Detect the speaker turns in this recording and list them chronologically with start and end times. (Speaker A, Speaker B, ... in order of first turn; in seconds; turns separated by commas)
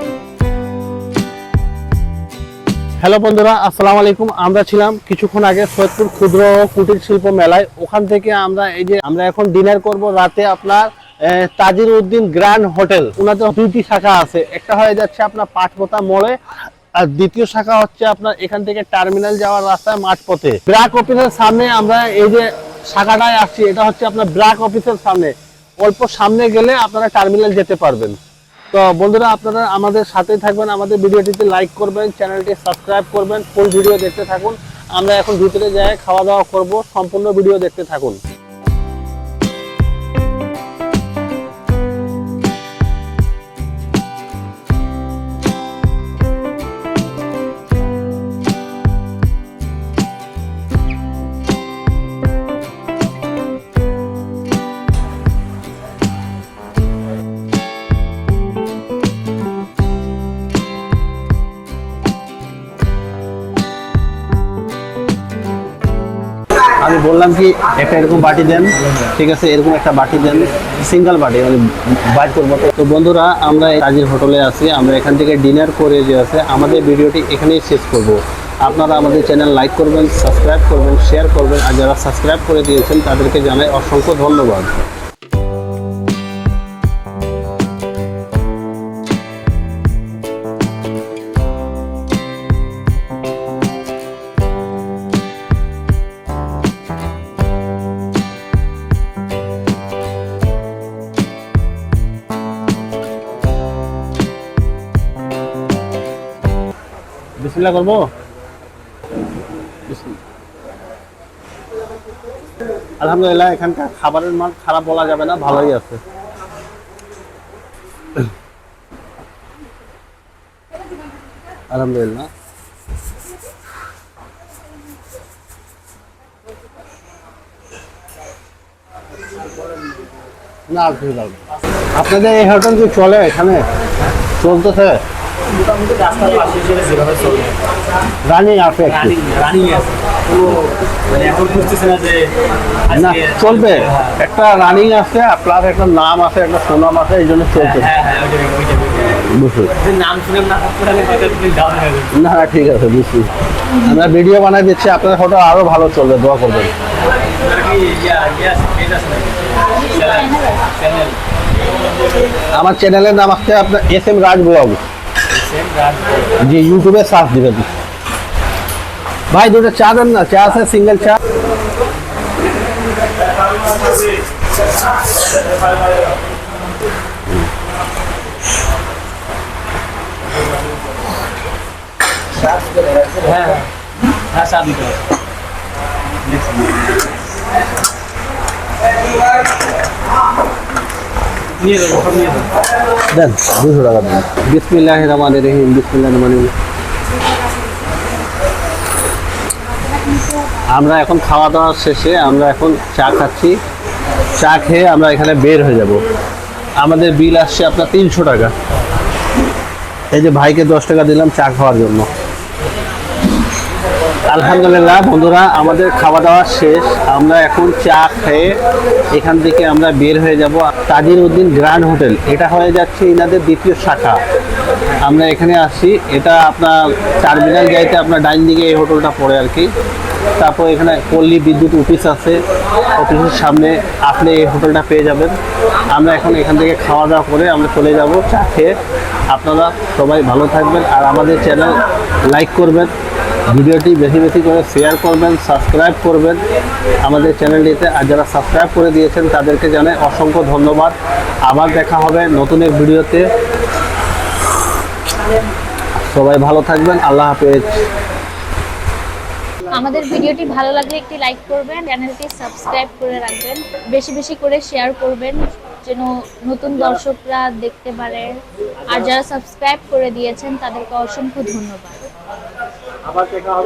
Speaker A: 3.0-16.4, Speaker A: 17.0-28.2, Speaker A: 28.7-38.2, Speaker A: 66.8-84.8, Speaker A: 107.4-108.0, Speaker A: 109.9-110.2, Speaker A: 113.0-116.0, Speaker A: 121.7-122.3, Speaker A: 130.7-131.4, Speaker A: 131.9-133.6, Speaker A: 134.4-135.0, Speaker B: 135.5-137.6, Speaker A: 138.2-139.2, Speaker B: 138.8-142.3, Speaker B: 142.9-144.2, Speaker A: 142.9-147.9, Speaker B: 147.5-149.2, Speaker A: 149.3-149.7, Speaker B: 149.8-152.1, Speaker A: 152.1-153.3, Speaker A: 153.8-156.7, Speaker B: 157.2-161.2, Speaker C: 159.9-160.6, Speaker A: 162.5-164.8, Speaker B: 165.3-166.3, Speaker A: 166.4-167.7, Speaker A: 169.3-171.2, Speaker B: 183.1-183.7, Speaker B: 184.3-185.1, Speaker B: 186.2-186.8, Speaker B: 191.6-192.5, Speaker A: 193.1-196.5, Speaker A: 200.7-203.6, Speaker A: 204.3-206.0, Speaker A: 206.8-208.5, Speaker A: 210.1-212.1, Speaker A: 214.2-218.6, Speaker A: 219.1-224.2, Speaker A: 225.0-229.7, Speaker A: 230.4-232.4, Speaker A: 232.9-235.3, Speaker A: 235.9-238.8, Speaker A: 239.3-242.9, Speaker A: 243.5-246.4, Speaker A: 247.0-250.9, Speaker A: 251.5-253.3, Speaker A: 256.0-257.7, Speaker C: 259.7-268.4, Speaker C: 268.9-272.0, Speaker A: 273.1-273.5